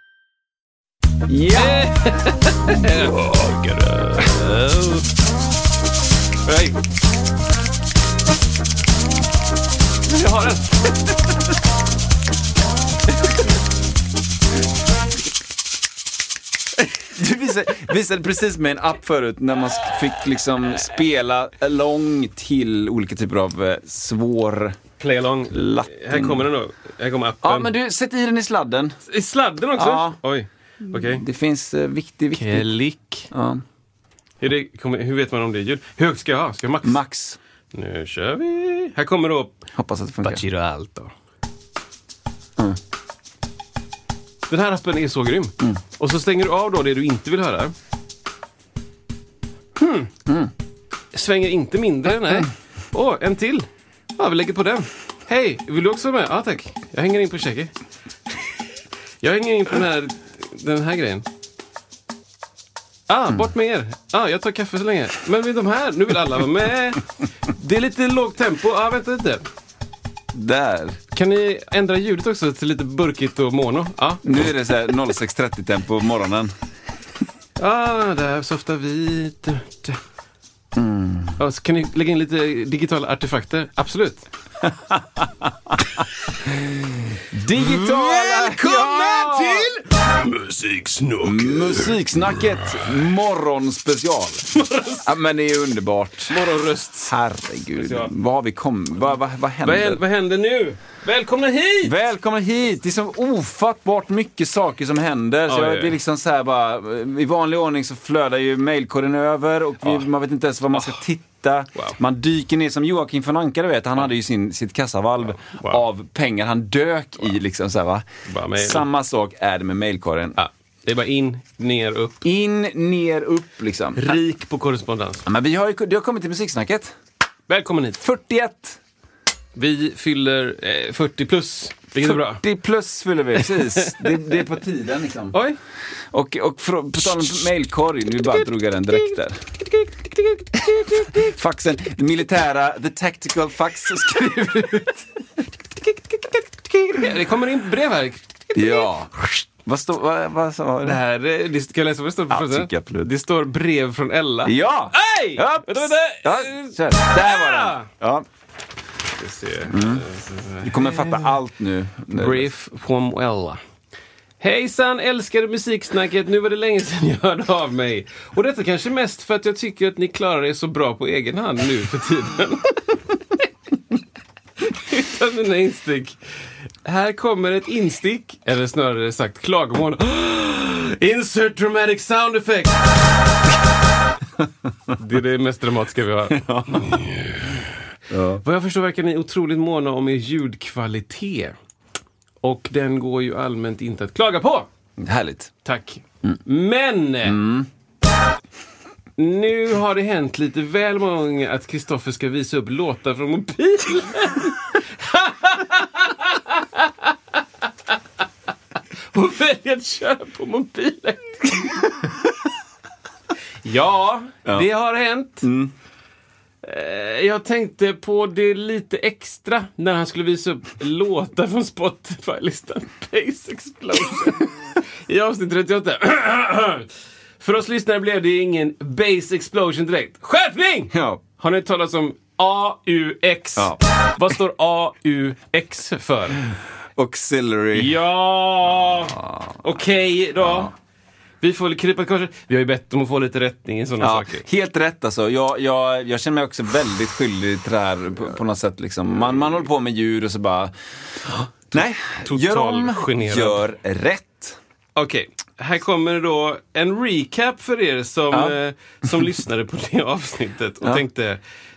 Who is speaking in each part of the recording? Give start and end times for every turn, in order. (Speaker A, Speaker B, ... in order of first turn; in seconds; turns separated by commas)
Speaker A: 1.3-1.9, Speaker B: 1.5-5.1, Speaker B: 6.5-6.8, Speaker B: 10.1-11.5, Speaker A: 17.1-24.8, Speaker B: 25.0-27.7, Speaker A: 25.5-26.5, Speaker A: 27.4-29.0, Speaker B: 29.1-31.2, Speaker A: 29.8-30.2, Speaker A: 30.9-32.7, Speaker B: 32.3-33.3, Speaker A: 33.3-33.6, Speaker B: 34.4-37.0, Speaker A: 36.8-37.4, Speaker B: 37.7-39.5, Speaker A: 39.8-40.4, Speaker B: 40.2-41.1, Speaker B: 44.5-47.7, Speaker B: 49.8-50.1, Speaker A: 50.3-50.5, Speaker B: 51.1-57.7, Speaker B: 59.2-61.3, Speaker B: 63.1-69.4, Speaker A: 70.3-71.0, Speaker B: 71.1-74.4, Speaker A: 74.2-76.5, Speaker B: 77.6-80.0, Speaker A: 80.7-81.4, Speaker B: 81.4-84.2, Speaker A: 84.6-85.8, Speaker A: 87.3-89.7, Speaker B: 87.6-92.9, Speaker A: 91.2-94.5, Speaker B: 94.5-95.1, Speaker A: 95.0-96.4, Speaker B: 96.3-97.1, Speaker A: 97.1-100.0, Speaker B: 97.8-98.1, Speaker B: 99.6-102.0, Speaker A: 101.8-118.0, Speaker B: 105.5-105.9, Speaker B: 115.4-115.8, Speaker B: 118.3-118.8, Speaker A: 118.6-120.4, Speaker B: 120.4-122.2, Speaker A: 122.2-124.2, Speaker B: 124.0-125.3, Speaker A: 125.3-127.0, Speaker B: 127.5-128.0, Speaker A: 128.0-128.8, Speaker B: 129.6-132.4, Speaker A: 132.1-135.4, Speaker B: 133.4-134.2, Speaker B: 135.3-135.6, Speaker A: 136.1-139.4, Speaker B: 138.9-141.3, Speaker A: 140.6-144.9, Speaker B: 144.2-144.9, Speaker B: 146.2-148.9, Speaker A: 148.5-149.1, Speaker A: 149.7-151.0, Speaker B: 150.8-157.9, Speaker A: 152.3-153.1, Speaker A: 154.4-158.3, Speaker B: 159.1-161.3, Speaker A: 159.7-160.1, Speaker A: 160.6-162.5, Speaker B: 162.1-163.6, Speaker B: 164.4-173.0, Speaker B: 174.7-176.2, Speaker B: 176.8-183.0, Speaker B: 184.9-187.8, Speaker A: 186.3-187.0, Speaker A: 188.1-188.4, Speaker B: 188.4-191.5, Speaker B: 192.4-194.7, Speaker A: 195.0-195.5, Speaker B: 195.7-197.4, Speaker A: 197.2-197.7, Speaker B: 199.2-207.4, Speaker B: 209.1-211.9, Speaker B: 213.6-215.5, Speaker A: 215.4-215.7, Speaker B: 216.6-226.9, Speaker B: 227.4-236.4, Speaker A: 230.9-231.2, Speaker A: 233.6-233.8, Speaker A: 237.0-238.0, Speaker B: 237.7-240.7, Speaker A: 240.4-240.7, Speaker B: 241.4-244.4, Speaker A: 244.0-250.7, Speaker A: 251.7-254.6, Speaker B: 251.7-253.7, Speaker B: 255.0-261.4, Speaker A: 258.3-258.6